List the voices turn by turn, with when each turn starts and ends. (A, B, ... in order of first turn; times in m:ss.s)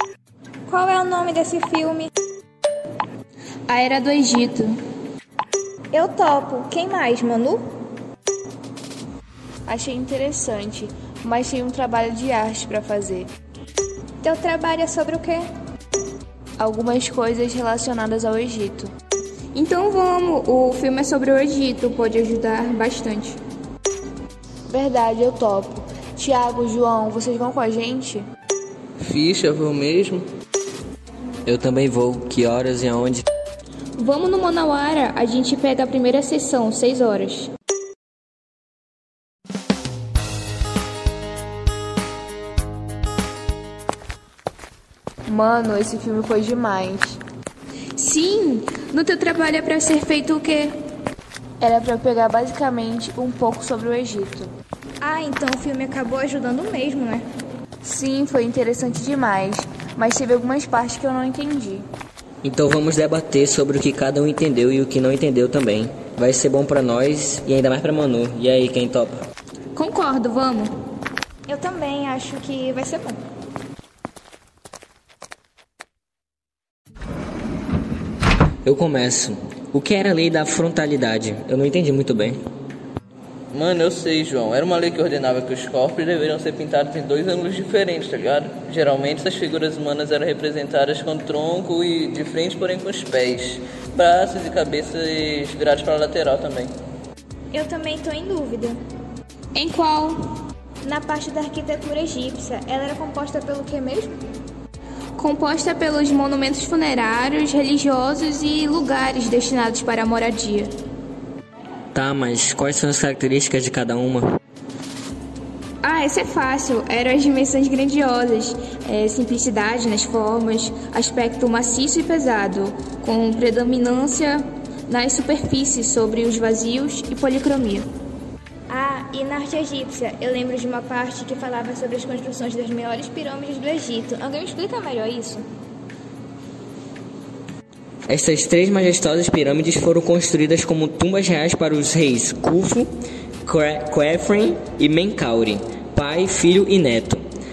0:00.7-0:02.1 A
0:03.7-0:04.7 B
0:05.9-0:07.6 A
0:09.6-0:13.3 C
0:14.2-0:15.4 A
0:16.6-0:18.9 C
0:19.5-0:23.4 B
0:24.7-0:28.2 C
0:29.0-0:30.2 D
0:31.4-0:33.2 E
0:34.0-0:37.5 B
0:45.3-0:47.2 C
0:48.0-0:50.7 B
0:51.6-0:54.5 C
0:55.0-0:57.2 A
0:57.8-1:01.8 C
1:02.4-1:09.2 E
1:09.8-1:10.7 B
1:11.5-1:13.2 A
1:18.6-1:22.4 E
1:23.5-1:36.7 D
1:37.5-1:38.8 A
1:39.5-1:40.2 B
1:40.8-1:44.2 A
1:45.2-1:50.7 B
1:51.9-1:54.2 E
1:55.8-2:07.8 B
2:08.7-2:15.4 A
2:18.1-2:22.9 E
2:23.4-2:27.2 E